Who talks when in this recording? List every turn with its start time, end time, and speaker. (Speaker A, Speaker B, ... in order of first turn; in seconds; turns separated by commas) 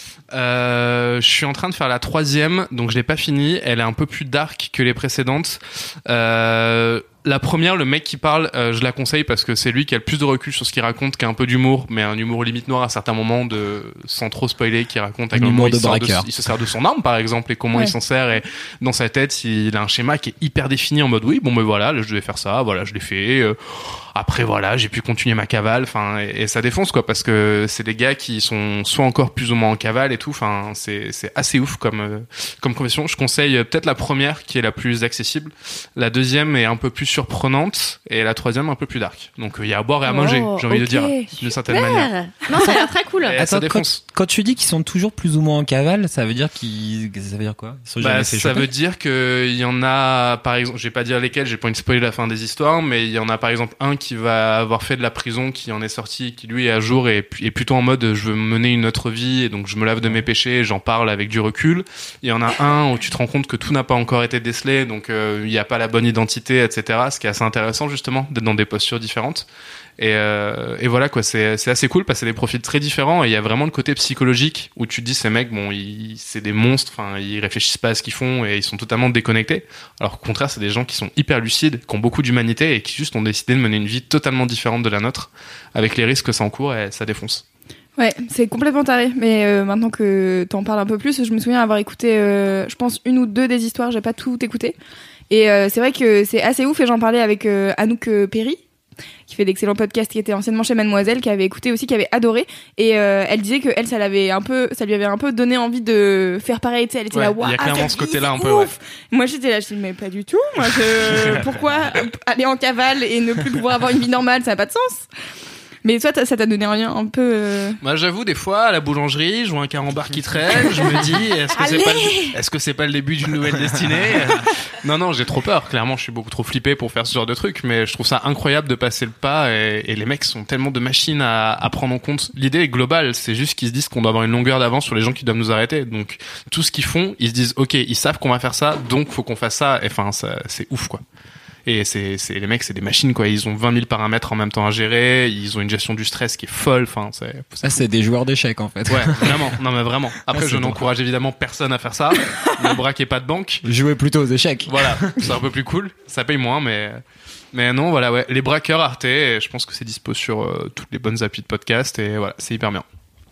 Speaker A: 0.3-23.6, Speaker B: 15.3-16.3, Speaker A: 24.1-42.1, Speaker C: 40.0-43.4, Speaker B: 42.5-42.8, Speaker A: 43.2-44.0, Speaker B: 43.4-48.7, Speaker A: 48.0-69.5, Speaker A: 70.0-87.4, Speaker D: 88.0-94.8, Speaker D: 95.3-98.6, Speaker D: 99.3-115.1, Speaker A: 107.1-108.7, Speaker A: 111.1-111.4, Speaker D: 115.8-117.8, Speaker A: 117.8-141.0, Speaker D: 121.5-122.4, Speaker A: 141.7-147.8, Speaker B: 147.6-149.5, Speaker A: 148.9-153.6, Speaker B: 150.3-150.9, Speaker B: 153.6-155.1, Speaker A: 154.7-157.0, Speaker A: 157.5-162.8